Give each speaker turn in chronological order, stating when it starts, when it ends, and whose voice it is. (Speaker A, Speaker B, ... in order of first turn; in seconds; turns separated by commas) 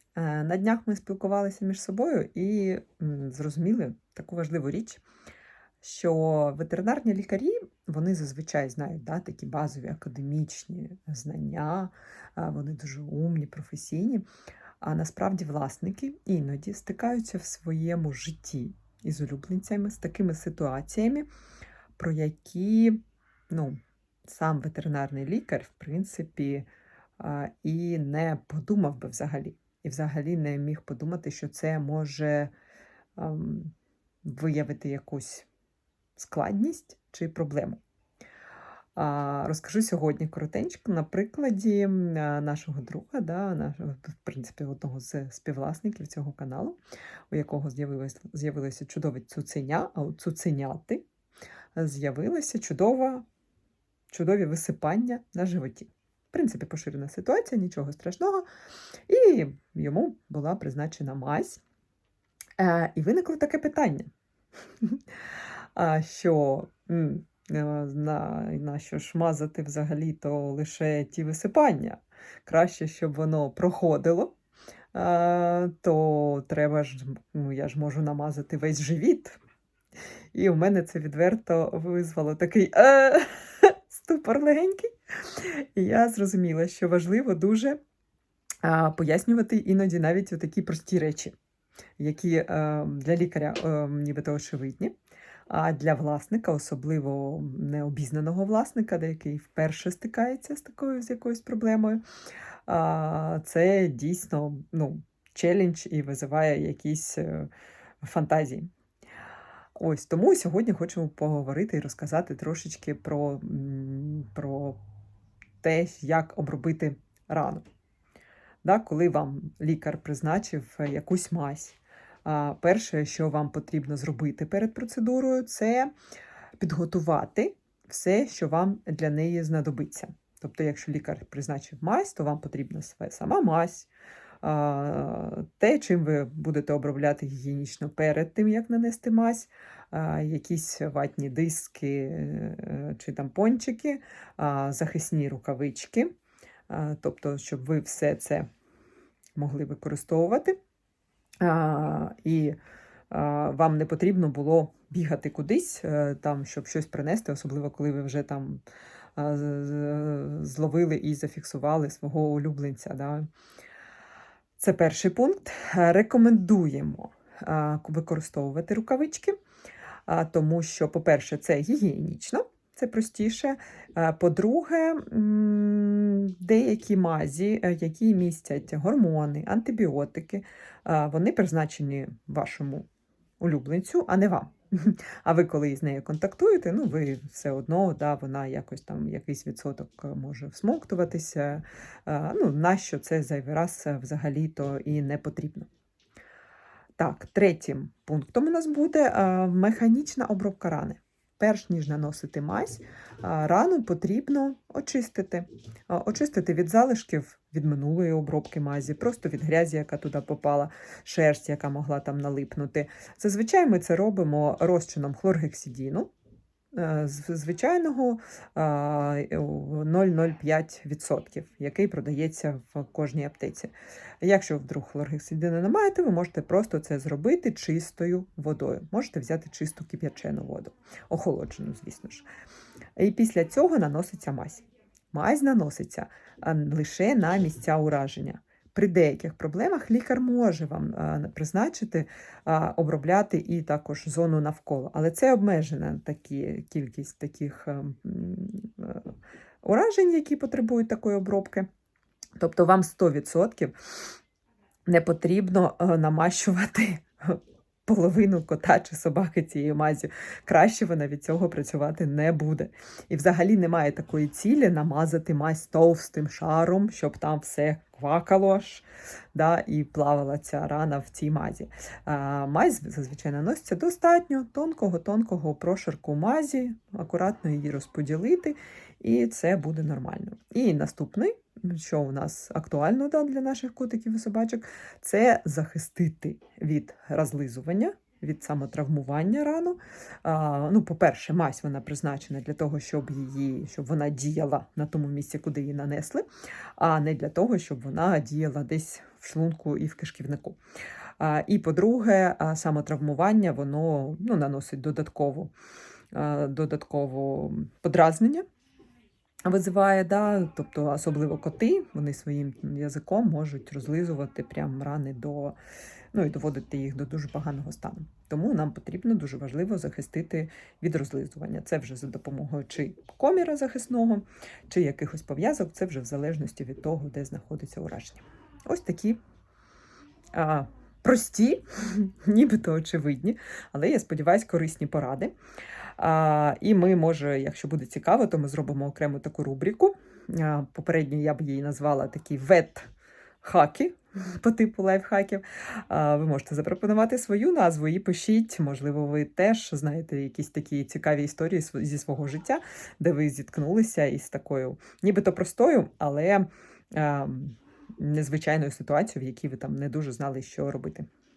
Speaker A: 0.1-5.0, Speaker A: 5.8-14.2, Speaker A: 14.8-21.3, Speaker A: 22.0-26.7, Speaker A: 27.2-32.5, Speaker A: 33.2-33.7, Speaker A: 34.2-35.5, Speaker A: 36.2-37.8, Speaker A: 39.0-46.8, Speaker A: 47.3-51.0, Speaker A: 51.8-53.2, Speaker A: 54.1-58.5, Speaker A: 59.1-61.6, Speaker A: 62.6-64.1, Speaker A: 65.8-74.4, Speaker A: 74.9-79.4, Speaker A: 80.3-87.8, Speaker A: 88.6-91.3, Speaker A: 92.0-94.9, Speaker A: 95.5-102.0, Speaker A: 102.7-107.5, Speaker A: 108.0-108.7, Speaker A: 109.8-114.8, Speaker A: 115.6-117.7, Speaker A: 118.6-125.9, Speaker A: 126.6-133.9, Speaker A: 134.4-146.1, Speaker A: 146.7-148.5, Speaker A: 149.4-150.6, Speaker A: 151.4-152.6, Speaker A: 153.1-158.6, Speaker A: 159.2-163.3, Speaker A: 164.6-169.3, Speaker A: 170.1-182.9, Speaker A: 183.4-195.7, Speaker A: 197.0-216.1, Speaker A: 216.7-232.3, Speaker A: 233.0-249.1, Speaker A: 249.6-251.7, Speaker A: 252.4-253.8, Speaker A: 254.9-296.2, Speaker A: 296.8-300.6, Speaker A: 301.2-305.5, Speaker A: 306.1-308.4, Speaker A: 309.4-315.6, Speaker A: 316.1-329.2, Speaker A: 330.3-335.3, Speaker A: 336.0-342.9, Speaker A: 343.4-361.1